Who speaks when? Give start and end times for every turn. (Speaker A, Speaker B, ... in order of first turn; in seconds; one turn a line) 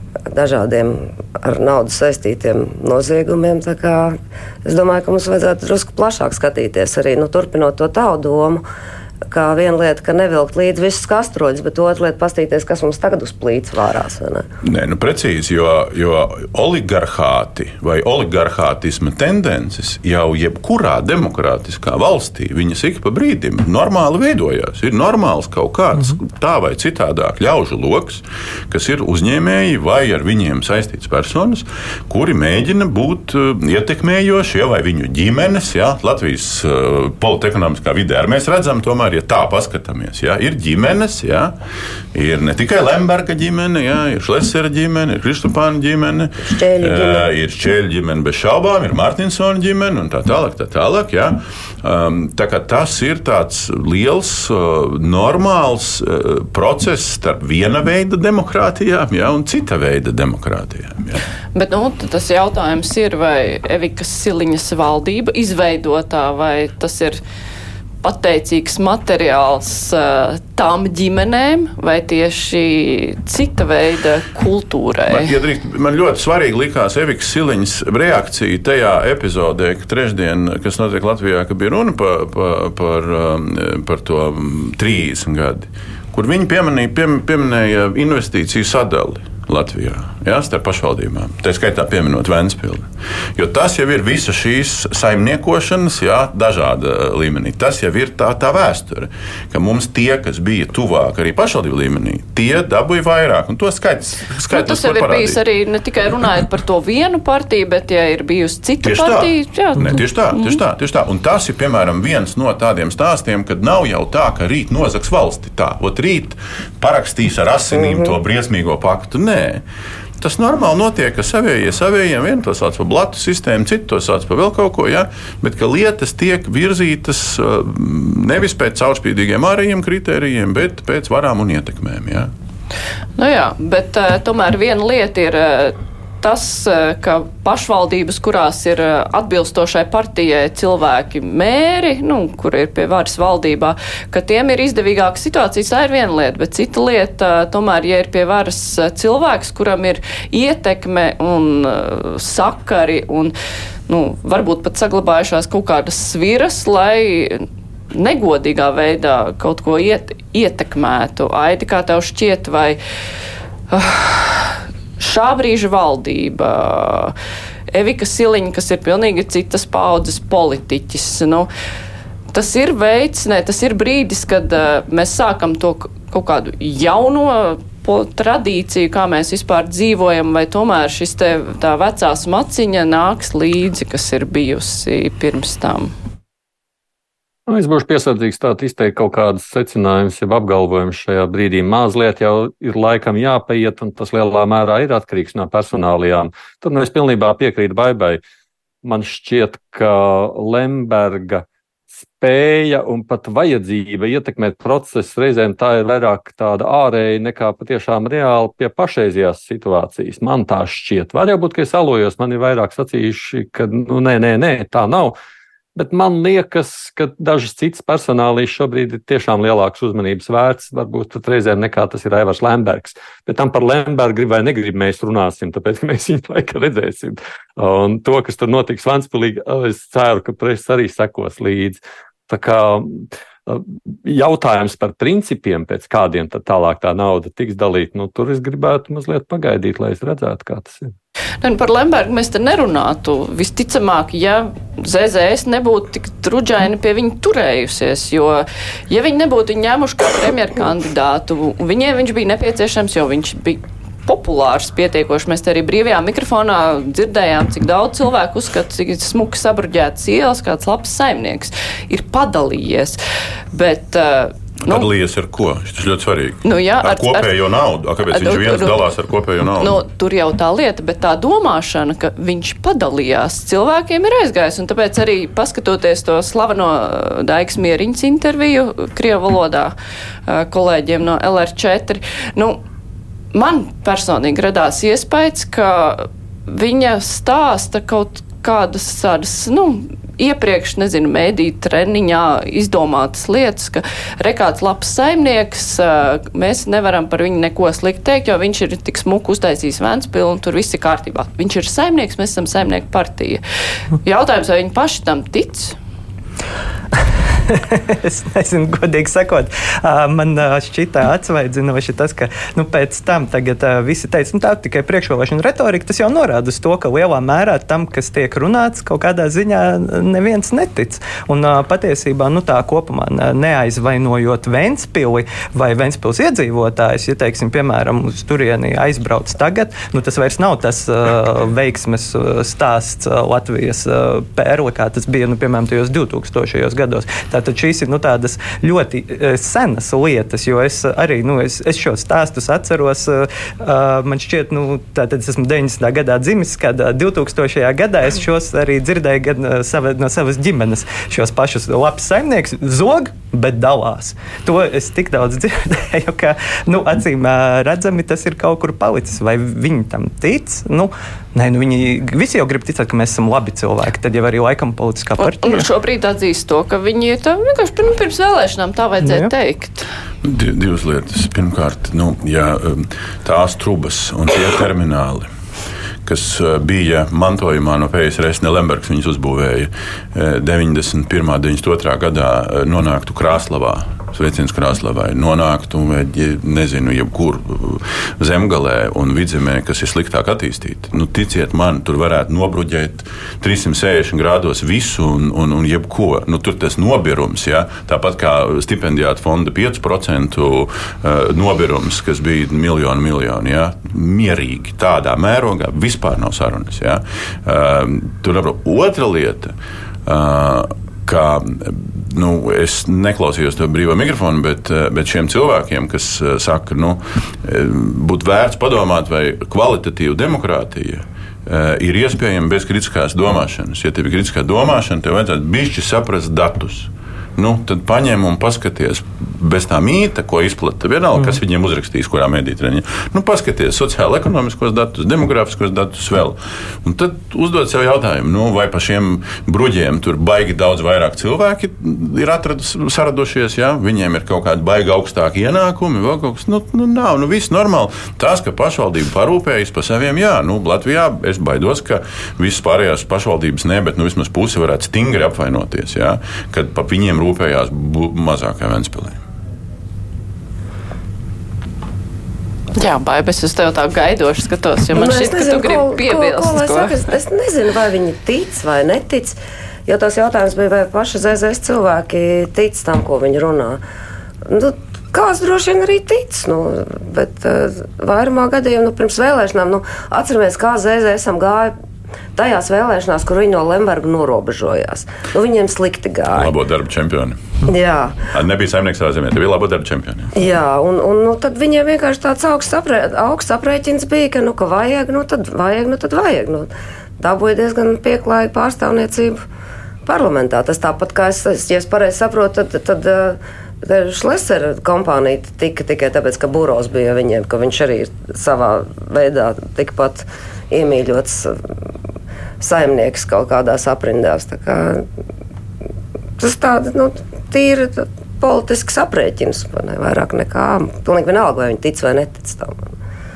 Speaker A: 0.3-8.6
Speaker A: 9.3-14.4
Speaker B: 14.6-41.5
Speaker B: 42.1-61.2
Speaker A: 46.4-47.3
Speaker C: 61.5-67.2
Speaker C: 68.0-75.3
Speaker B: 75.1-105.4
Speaker C: 104.5-110.6
Speaker B: 108.8-119.6
Speaker B: 120.2-132.3
Speaker C: 133.2-153.3
Speaker C: 153.9-162.8
Speaker C: 163.7-167.1
Speaker C: 167.7-171.5
Speaker C: 172.3-185.9
Speaker D: 187.5-198.2
Speaker D: 198.8-215.2
Speaker D: 215.8-240.9
Speaker C: 241.4-263.0
Speaker C: 263.5-264.9
Speaker B: 264.6-269.8
Speaker C: 266.4-267.4
Speaker C: 268.1-268.8
Speaker C: 269.4-279.7
Speaker C: 280.3-282.6
Speaker C: 283.3-303.4
Speaker C: 304.0-305.8
Speaker E: 307.5-365.7
Speaker C: 365.2-369.9
Speaker E: 369.0-369.3
Speaker B: 370.2-375.3
Speaker B: 376.0-409.5
Speaker B: 410.1-459.2
Speaker C: 462.8-466.9
Speaker A: 464.9-473.8
Speaker A: 474.4-481.7
Speaker A: 482.4-486.5
Speaker B: 486.3-487.6
Speaker A: 487.6-488.3
Speaker B: 488.3-490.3
Speaker A: 490.3-499.4
Speaker A: 500.1-511.6
Speaker A: 512.6-515.0
Speaker A: 516.4-522.8